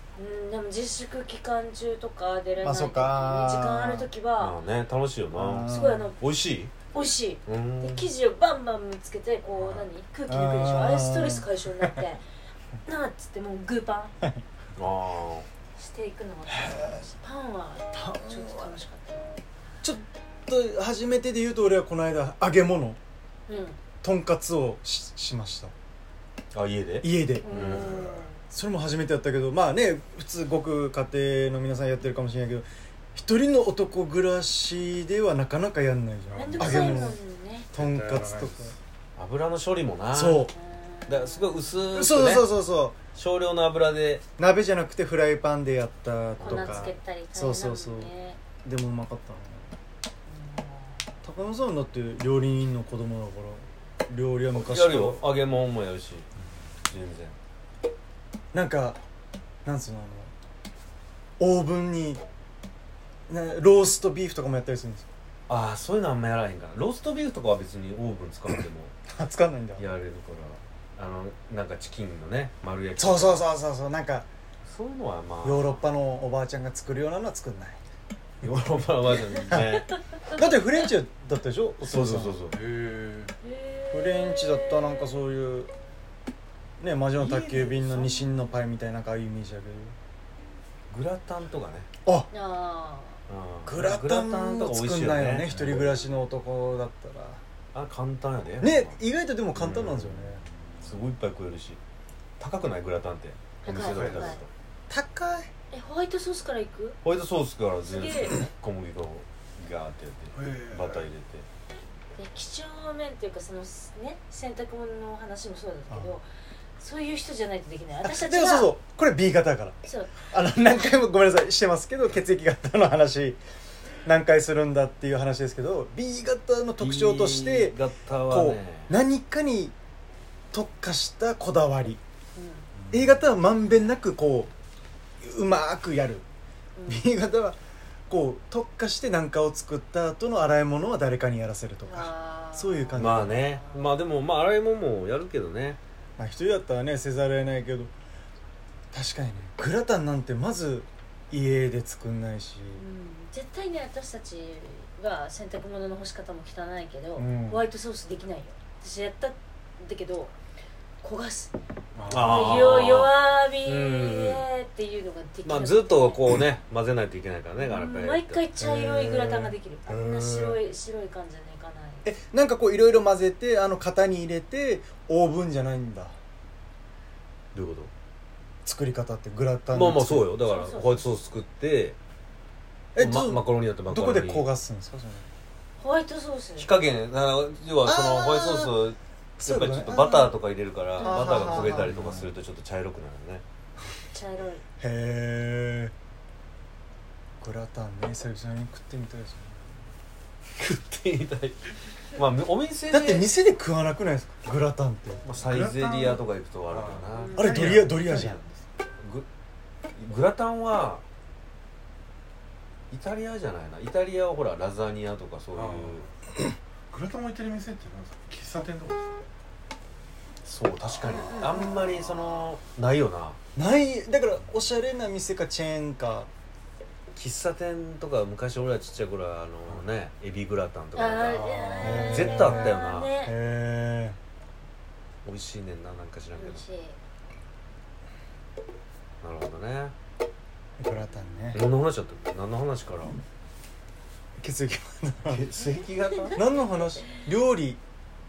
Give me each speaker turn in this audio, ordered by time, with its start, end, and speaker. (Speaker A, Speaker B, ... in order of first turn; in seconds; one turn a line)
Speaker A: 0.1-4.6
Speaker B: 2.6-4.1
Speaker C: 4.4-6.7
Speaker B: 5.3-6.1
Speaker A: 5.7-6.2
Speaker A: 6.9-12.2
Speaker C: 7.5-8.1
Speaker B: 10.3-11.5
Speaker A: 12.8-14.1
Speaker C: 14.8-15.5
Speaker A: 15.7-19.4
Speaker B: 16.5-17.0
Speaker B: 17.9-18.8
Speaker B: 19.8-23.0
Speaker A: 23.5-23.8
Speaker B: 24.0-25.7
Speaker C: 26.5-27.8
Speaker B: 27.0-37.2
Speaker A: 27.4-28.4
Speaker D: 27.5-28.3
Speaker D: 36.3-37.1
Speaker A: 36.3-37.7
Speaker B: 37.7-38.7
Speaker D: 37.7-38.8
Speaker C: 39.1-40.5
Speaker B: 40.1-40.5
Speaker A: 40.5-41.8
Speaker C: 41.1-42.5
Speaker B: 41.9-43.0
Speaker C: 43.1-44.2
Speaker B: 44.4-48.1
Speaker C: 46.4-46.9
Speaker A: 46.4-48.4
Speaker B: 48.6-49.7
Speaker A: 50.2-51.0
Speaker B: 51.2-55.2
Speaker C: 54.5-56.3
Speaker C: 56.9-57.4
Speaker B: 58.5-59.0
Speaker B: 59.6-60.3
Speaker B: 61.4-62.2
Speaker B: 63.3-65.1
Speaker C: 65.5-68.9
Speaker B: 69.1-69.8
Speaker C: 69.8-73.5
Speaker B: 73.0-74.3
Speaker C: 74.6-75.8
Speaker B: 75.4-77.8
Speaker C: 78.4-80.0
Speaker B: 79.5-79.8
Speaker B: 80.3-82.4
Speaker C: 81.8-82.6
Speaker D: 82.5-83.3
Speaker A: 83.4-85.1
Speaker B: 83.9-85.7
Speaker B: 86.8-89.9
Speaker C: 87.2-88.3
Speaker C: 90.9-91.9
Speaker B: 92.0-92.3
Speaker A: 92.3-93.2
Speaker C: 93.3-95.8
Speaker B: 93.7-97.4
Speaker D: 95.5-95.9
Speaker C: 97.7-99.0
Speaker B: 98.6-100.4
Speaker C: 99.5-101.8
Speaker C: 102.4-104.5
Speaker A: 103.6-104.4
Speaker D: 103.8-104.4
Speaker B: 104.9-105.5
Speaker A: 105.7-107.0
Speaker C: 107.0-111.5
Speaker A: 107.8-108.3
Speaker D: 110.3-111.1
Speaker A: 112.1-116.3
Speaker B: 115.9-116.2
Speaker A: 116.8-118.7
Speaker B: 118.0-123.4
Speaker A: 119.8-120.1
Speaker B: 124.0-129.7
Speaker C: 126.8-128.9
Speaker B: 130.5-132.0
Speaker A: 132.3-132.7
Speaker B: 132.9-134.5
Speaker B: 135.2-136.2
Speaker A: 136.8-137.1
Speaker B: 136.8-137.6
Speaker B: 138.1-143.4
Speaker A: 141.8-143.8
Speaker C: 142.9-145.8
Speaker B: 146.2-147.9
Speaker B: 148.9-152.8
Speaker A: 152.7-160.3
Speaker B: 157.2-157.6
Speaker A: 161.0-161.5
Speaker D: 161.9-162.5
Speaker C: 162.1-164.4
Speaker A: 162.1-166.2
Speaker C: 165.4-168.4
Speaker A: 167.6-172.1
Speaker B: 168.6-170.6
Speaker B: 172.0-176.2
Speaker C: 177.5-177.9
Speaker B: 178.6-180.3
Speaker C: 179.7-181.9
Speaker A: 180.4-181.1
Speaker B: 182.9-185.3
Speaker C: 183.0-184.4
Speaker A: 185.8-186.7
Speaker C: 186.6-193.4
Speaker B: 187.8-188.8
Speaker B: 189.4-190.3
Speaker A: 191.0-191.7
Speaker B: 191.0-192.1
Speaker D: 191.7-192.2
Speaker A: 194.1-194.6
Speaker B: 194.8-195.9
Speaker B: 197.4-199.8
Speaker C: 200.6-203.3
Speaker B: 202.9-205.2
Speaker C: 205.2-207.8
Speaker D: 205.4-208.8
Speaker A: 207.2-207.4
Speaker B: 207.3-208.4
Speaker C: 209.0-209.2
Speaker C: 209.9-211.0
Speaker C: 212.9-216.1
Speaker D: 215.5-216.1
Speaker D: 216.9-219.2
Speaker C: 220.4-223.4
Speaker A: 221.0-222.1
Speaker B: 223.6-226.3
Speaker C: 227.1-233.1
Speaker A: 230.9-233.3
Speaker D: 231.3-232.3
Speaker B: 231.8-234.2
Speaker C: 235.2-236.6
Speaker A: 236.3-237.0
Speaker C: 239.2-239.9
Speaker B: 240.8-241.6
Speaker C: 241.5-243.2
Speaker B: 244.4-245.5
Speaker C: 245.3-246.4
Speaker B: 246.3-247.8